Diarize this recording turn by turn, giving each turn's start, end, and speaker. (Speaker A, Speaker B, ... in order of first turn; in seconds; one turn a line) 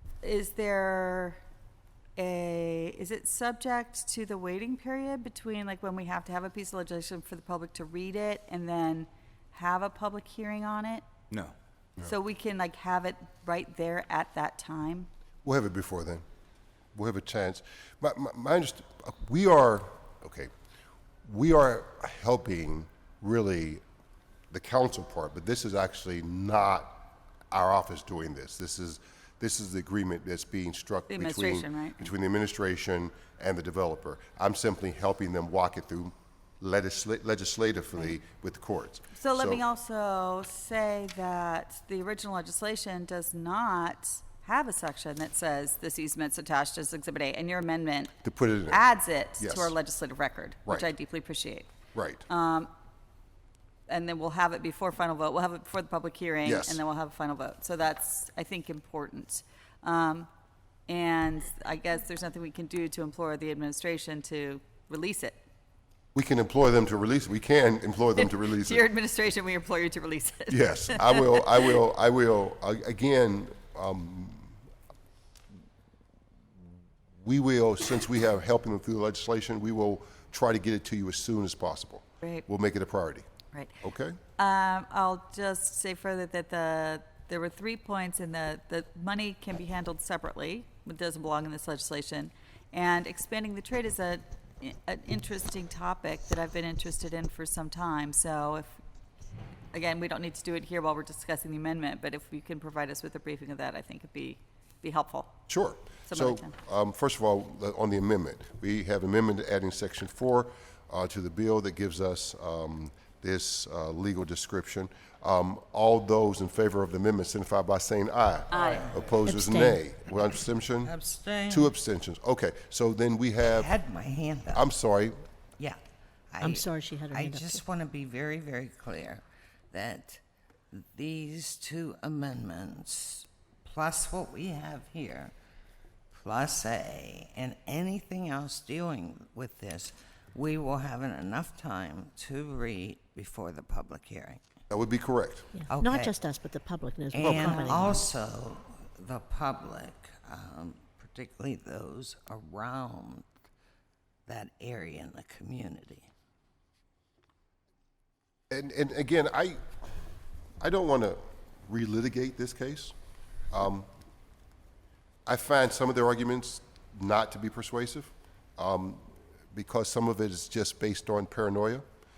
Speaker A: 0.2-1.4
Speaker A: 2.2-11.0
Speaker A: 12.0-15.1
Speaker B: 15.4-16.2
Speaker B: 16.9-20.5
Speaker B: 21.2-23.8
Speaker B: 24.5-39.6
Speaker A: 31.1-32.1
Speaker A: 39.2-48.1
Speaker B: 48.2-48.8
Speaker A: 48.7-51.7
Speaker B: 49.4-49.7
Speaker B: 51.9-52.2
Speaker A: 52.3-52.7
Speaker A: 53.9-60.3
Speaker B: 56.5-56.8
Speaker A: 60.9-65.4
Speaker B: 66.2-68.8
Speaker A: 68.2-71.7
Speaker B: 70.5-74.6
Speaker B: 77.2-83.3
Speaker A: 83.5-83.8
Speaker B: 83.8-84.2
Speaker A: 84.4-98.8
Speaker A: 99.7-105.4
Speaker B: 105.5-120.9
Speaker A: 106.1-106.5
Speaker A: 118.5-118.9
Speaker C: 118.6-119.0
Speaker D: 119.3-119.8
Speaker C: 120.8-121.7
Speaker B: 121.5-123.7
Speaker C: 123.4-124.7
Speaker B: 124.5-125.2
Speaker C: 126.3-130.2
Speaker D: 126.4-127.6
Speaker C: 130.7-135.3
Speaker C: 136.1-144.4
Speaker B: 144.7-145.5
Speaker D: 145.6-148.1
Speaker C: 145.7-146.2
Speaker C: 147.1-153.2
Speaker B: 147.3-147.5
Speaker C: 154.3-156.1
Speaker B: 158.5-159.6
Speaker B: 160.6-162.9
Speaker B: 163.5-163.9
Speaker B: 165.3-171.8